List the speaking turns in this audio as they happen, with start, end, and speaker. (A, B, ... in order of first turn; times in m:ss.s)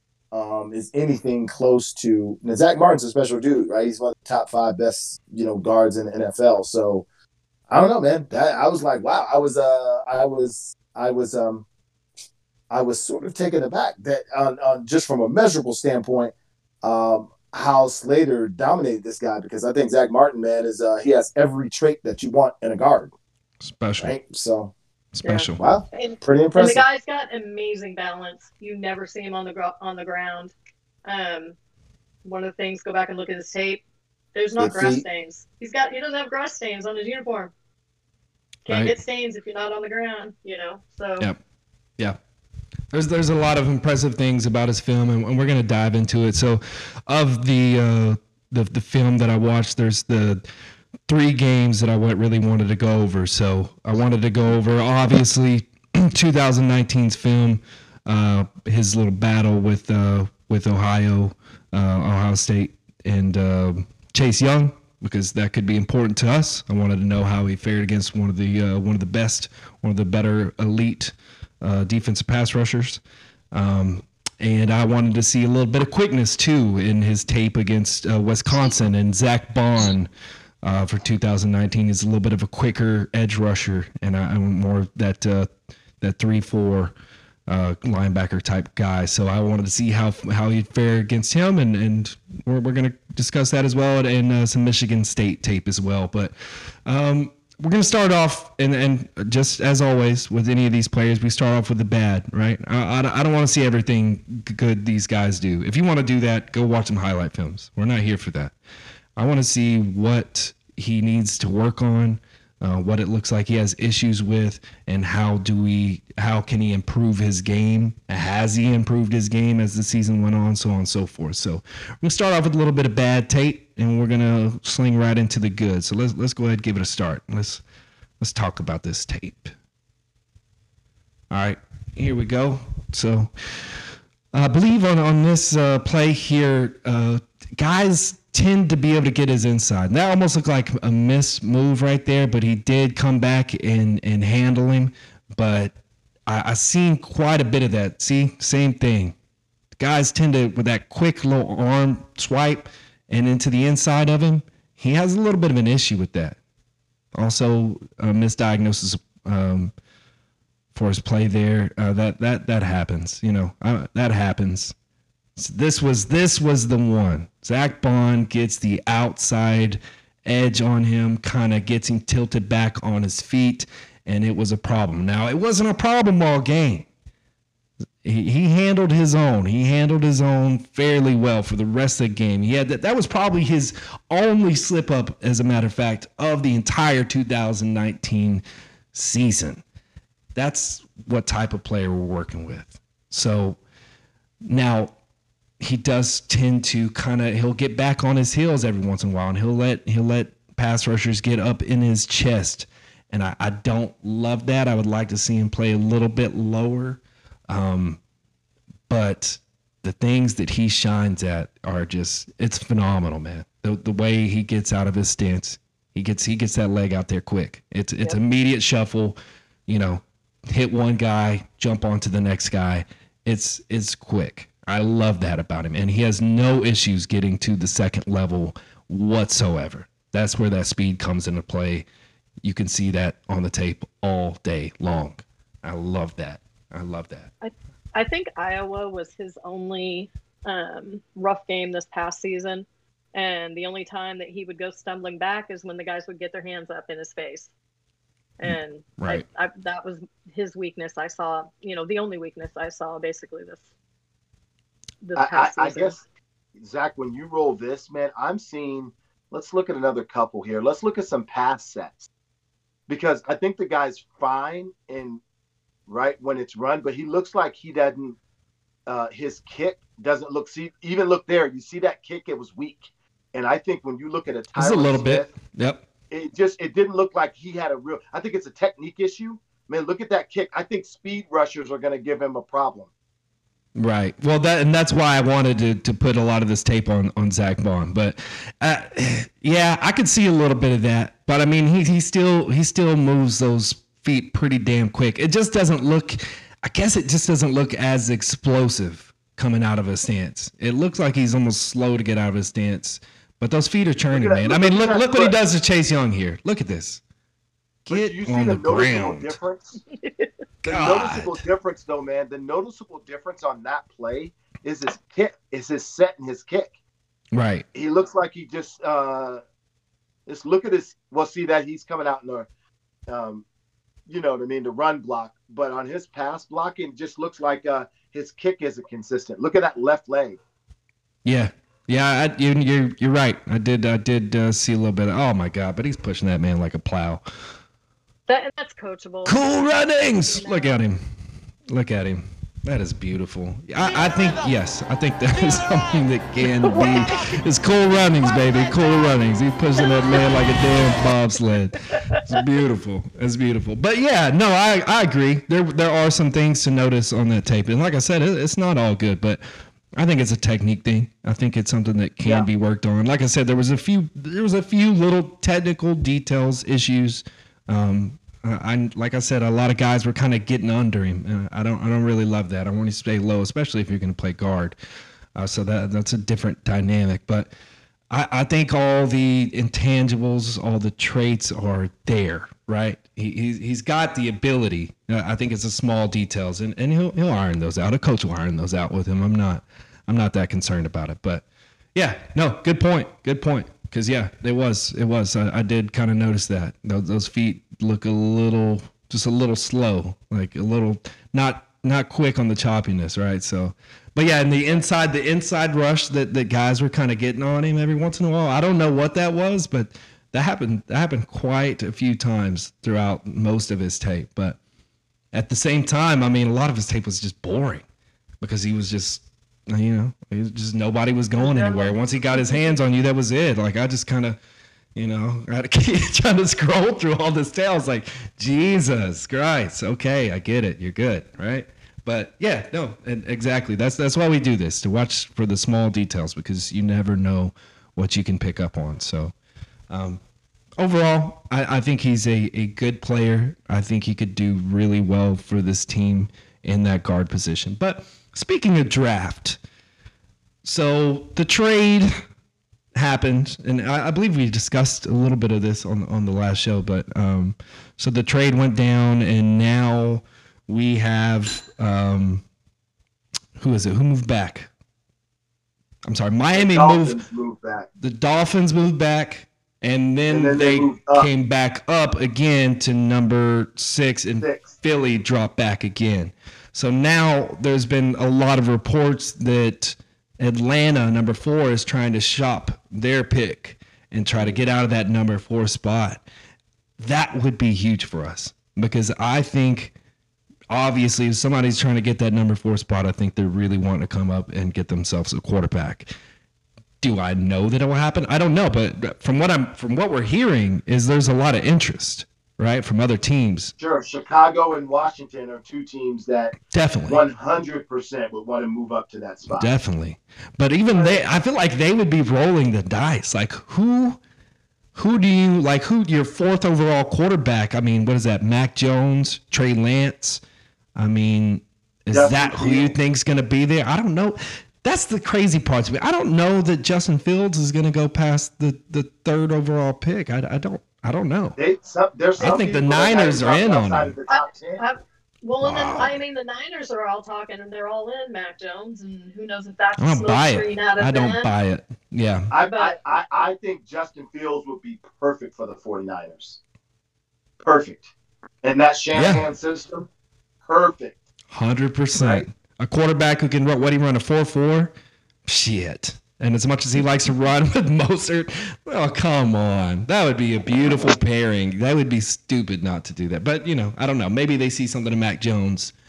0:00.3-0:07.0 A
0:07.7-0:11.6 A
0:12.7-0:23.1 A
0:23.6-0:24.2 B
0:24.0-0:24.7 A
0:25.2-0:25.6 B
0:25.2-0:30.5 C
0:25.6-0:26.8 A
0:31.0-0:31.6 C
0:32.2-0:33.8 C
0:34.3-0:37.5 C
0:34.6-0:35.0 A
0:38.7-0:41.3 C
0:38.7-0:38.9 B
0:42.9-0:50.4 B
0:51.1-1:13.0 B
1:13.5-1:20.1 B
1:20.6-1:25.5 B
1:26.0-1:26.9 B
1:27.5-1:36.3 B
1:36.9-1:48.5 B
1:49.2-2:07.6 B
2:08.2-2:09.5 B
2:11.3-2:25.7 B
2:26.3-2:29.2 B
2:29.8-2:36.4 B
2:37.2-2:39.7 B
2:40.7-2:44.7 B
2:45.4-2:56.9 B
2:58.0-3:08.4 B
3:08.9-3:09.6 B
3:10.4-3:13.6 B
3:14.4-3:14.9 B
3:15.6-3:28.0 B
3:28.9-3:51.9 B
3:52.4-3:57.3 B
3:57.4-4:07.5 C
4:08.4-4:13.6 C
4:08.5-4:09.2 B
4:15.0-4:16.0 C
4:15.2-4:16.0 A
4:16.6-4:22.1 A
4:22.9-4:25.2 A
4:25.9-4:28.2 A
4:28.9-4:35.3 A
4:34.6-4:35.8 B
4:36.1-4:42.9 A
4:43.8-5:07.0 B
5:04.1-5:05.4 A
5:07.8-5:09.4 B
5:07.9-5:09.8 A
5:10.0-5:10.3 C
5:10.6-5:11.3 B
5:10.7-5:16.7 A
5:17.3-5:17.6 B
5:17.7-5:19.4 A
5:20.3-5:22.5 A
5:23.1-5:23.4 A
5:24.1-5:30.4 A
5:31.2-5:37.2 B
5:38.3-5:39.4 C
5:39.2-5:41.0 B
5:40.4-5:40.8 C
5:41.7-5:59.4 B
5:46.6-5:47.4 C
5:48.2-5:49.1 C
5:51.9-5:52.2 C
6:00.0-6:14.8 B
6:02.2-6:02.5 A
6:15.4-6:17.5 B
6:18.1-6:31.4 B
6:32.0-6:54.6 B
6:55.3-6:57.8 B
6:58.4-7:04.4 B
7:01.4-7:02.8 C
7:05.0-7:19.3 B
7:19.9-7:20.2 B
7:20.8-7:29.6 B
7:30.6-7:32.1 B
7:33.0-7:42.4 B
7:43.6-7:44.7 B
7:46.1-7:47.2 B
7:46.5-7:47.9 A
7:48.0-8:06.2 B
7:50.3-7:51.3 A
7:54.4-7:54.7 A
8:07.0-8:09.9 B
8:10.7-8:16.1 B
8:17.0-8:23.7 B
8:23.8-8:26.5 A
8:26.7-8:27.2 B
8:27.1-8:29.7 A
8:29.5-8:34.2 B
8:30.9-8:31.2 A
8:35.0-8:40.4 B
8:41.0-8:51.6 B
8:42.1-8:43.0 A
8:51.6-8:54.8 A
8:52.4-8:54.1 B
8:54.3-9:01.5 C
8:55.6-8:56.2 B
9:00.0-9:02.5 B
9:02.5-9:06.6 A
9:02.7-9:03.0 C
9:07.6-9:08.1 A
9:08.6-9:10.1 A
9:09.2-9:09.4 B
9:10.6-9:11.2 A
9:11.5-9:14.9 B
9:12.2-9:12.4 A
9:15.5-9:25.9 B